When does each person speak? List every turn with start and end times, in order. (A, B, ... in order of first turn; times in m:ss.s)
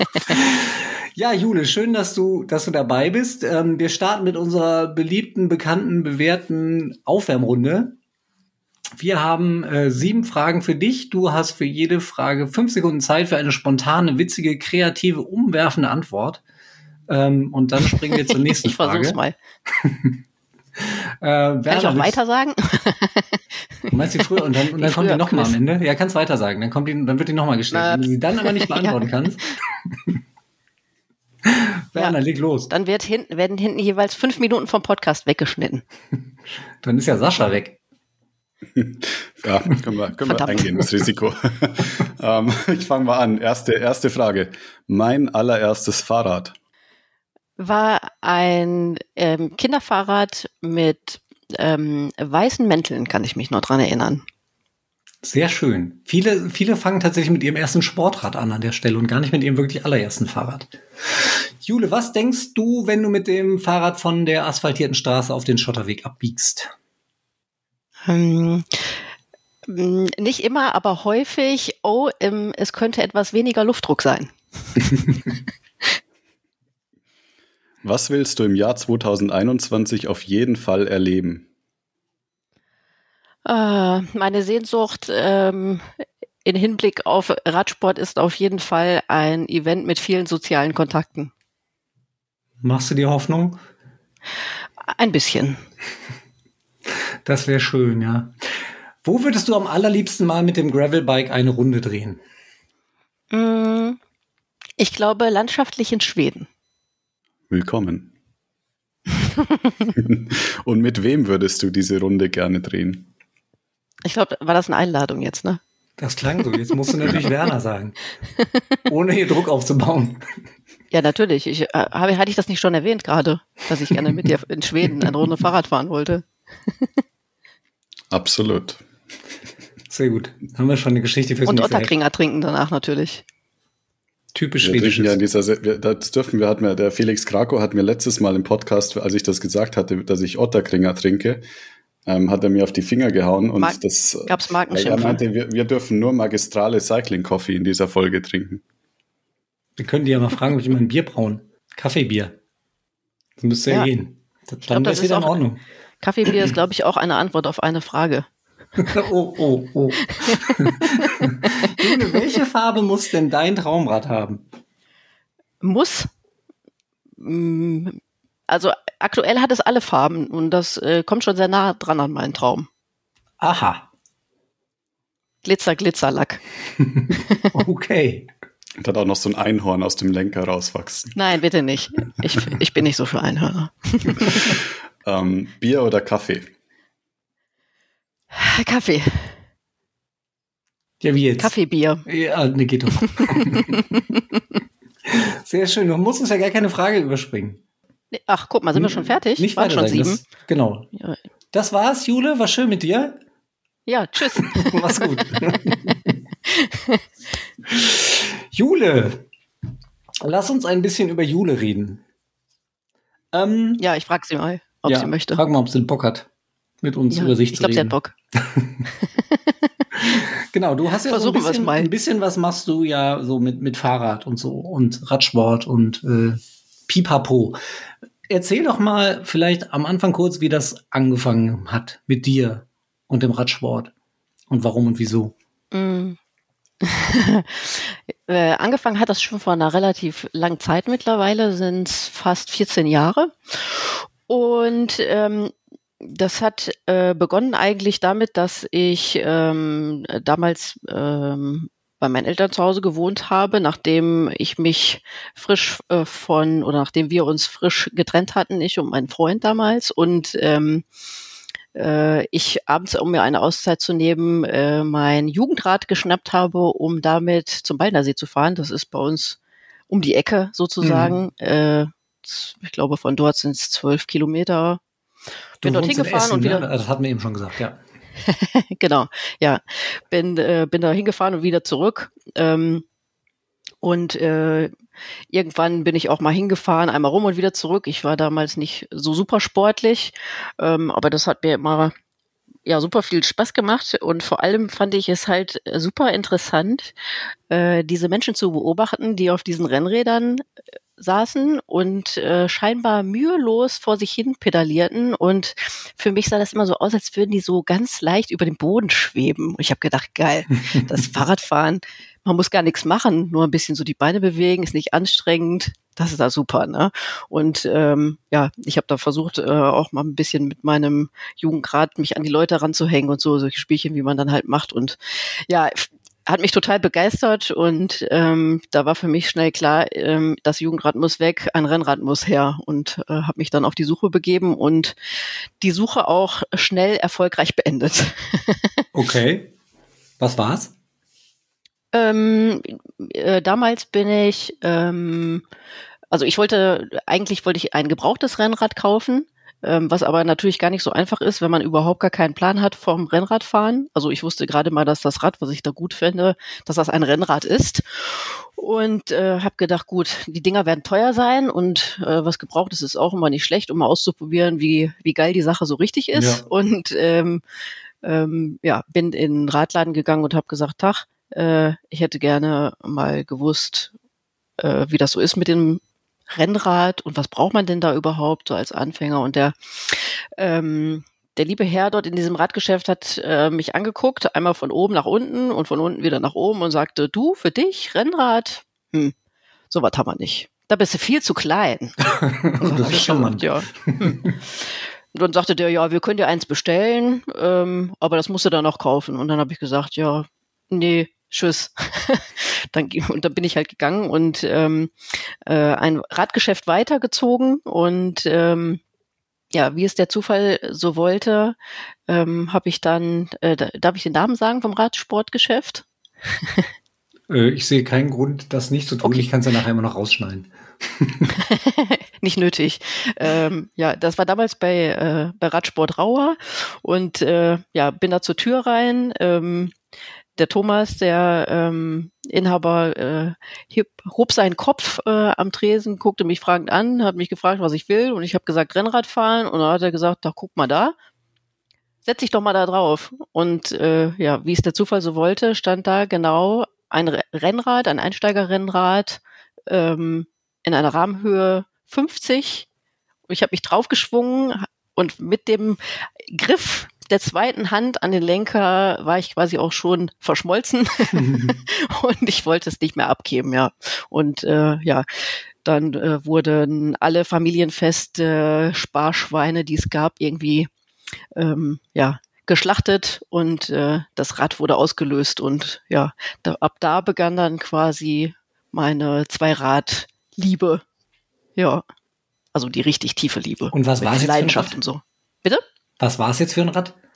0:00.3-0:08.0 A
0:09.0-0:16.4 A
0:17.1-0:19.2 A
0:18.1-0:19.4 B
0:19.8-0:20.2 A
0:20.8-0:22.2 A
0:21.7-0:25.6 B
0:23.9-0:29.5 A
0:27.7-0:28.9 B
0:31.5-0:32.7 A
0:32.7-0:35.8 B
0:36.8-0:37.8 A
0:38.8-0:46.5 C
0:40.3-0:40.6 B
0:47.6-0:54.2 B
0:55.2-1:06.7 A
1:08.0-1:08.8 B
1:09.7-1:14.3 B
1:17.8-1:21.5 C
1:23.5-1:25.9 B
1:26.4-1:31.3 B
1:32.6-1:33.6 A
1:34.8-1:35.6 B
1:37.2-1:38.3 A
1:39.0-1:42.2 A
1:43.3-1:44.0 B
1:44.8-1:46.5 B
1:47.5-1:48.1 C
1:50.0-1:53.1 C
1:54.0-1:55.6 B
1:56.0-1:58.2 A
1:58.9-2:00.2 A
2:00.9-2:06.2 B
2:08.1-2:08.8 C
2:09.9-2:11.9 A
2:11.5-2:13.2 B
2:14.3-2:15.2 A
2:14.6-2:21.4 C
2:22.1-2:28.6 C
2:23.6-2:25.2 B
2:29.8-2:32.4 A
2:33.4-2:35.6 A
2:34.7-2:35.4 B
2:36.0-2:38.3 B
2:38.8-2:44.4 A
2:40.3-2:42.2 B
2:45.6-2:46.1 B
2:47.2-2:52.7 B
2:53.4-2:53.9 A
2:55.4-2:56.4 B
2:57.0-2:58.3 A
2:58.8-3:01.2 C
3:01.2-3:04.6 B
3:05.0-3:06.5 C
3:08.3-3:09.3 B
3:11.0-3:11.5 A
3:11.4-3:12.0 B
3:12.0-3:13.8 A
3:13.2-3:14.0 B
3:15.1-3:17.6 A
3:18.1-3:20.2 B
3:18.8-3:20.9 A
3:21.5-3:23.2 A
3:23.9-3:25.8 B
3:24.5-3:26.1 A
3:26.5-3:27.0 B
3:27.7-3:29.2 A
3:30.2-3:32.0 A
3:33.3-3:33.8 A
3:33.8-3:35.4 B
3:34.9-3:36.3 A
3:36.8-3:38.7 A
3:37.1-3:38.2 B
3:40.2-3:47.6 A
3:41.1-3:41.9 B
3:48.3-3:53.9 A
3:54.5-3:55.3 A
3:55.7-3:56.2 B
3:56.8-4:20.8 B
4:21.8-4:29.4 B
4:29.9-4:34.8 B
4:30.8-4:31.2 A
4:35.6-4:37.8 A
4:35.6-4:36.7 B
4:38.3-4:42.8 B
4:43.8-4:44.7 B
4:45.3-4:51.9 B
4:52.7-4:56.9 B
4:57.5-5:00.4 B
5:01.0-5:35.0 B
5:35.6-5:38.8 B
5:38.9-5:39.5 A
5:40.2-5:40.7 A
5:41.9-5:45.4 B
5:46.1-6:07.4 B
6:06.2-6:06.4 A
6:08.0-6:13.9 B
6:14.6-6:29.1 B
6:29.7-6:32.0 B
6:32.5-6:34.3 A
6:32.6-6:34.3 B
6:35.1-6:44.9 B
6:45.5-6:48.8 B
6:49.5-6:51.6 B
6:52.1-6:55.8 B
6:56.4-6:56.6 B
6:57.3-7:01.3 A
7:01.5-7:09.7 B
7:10.4-7:21.0 B
7:22.0-7:32.7 B
7:33.3-7:50.7 B
7:41.2-7:41.5 A
7:51.4-8:00.8 B
8:01.6-8:01.8 B
8:02.5-8:05.6 B
8:03.7-8:04.8 A
8:06.0-8:07.0 A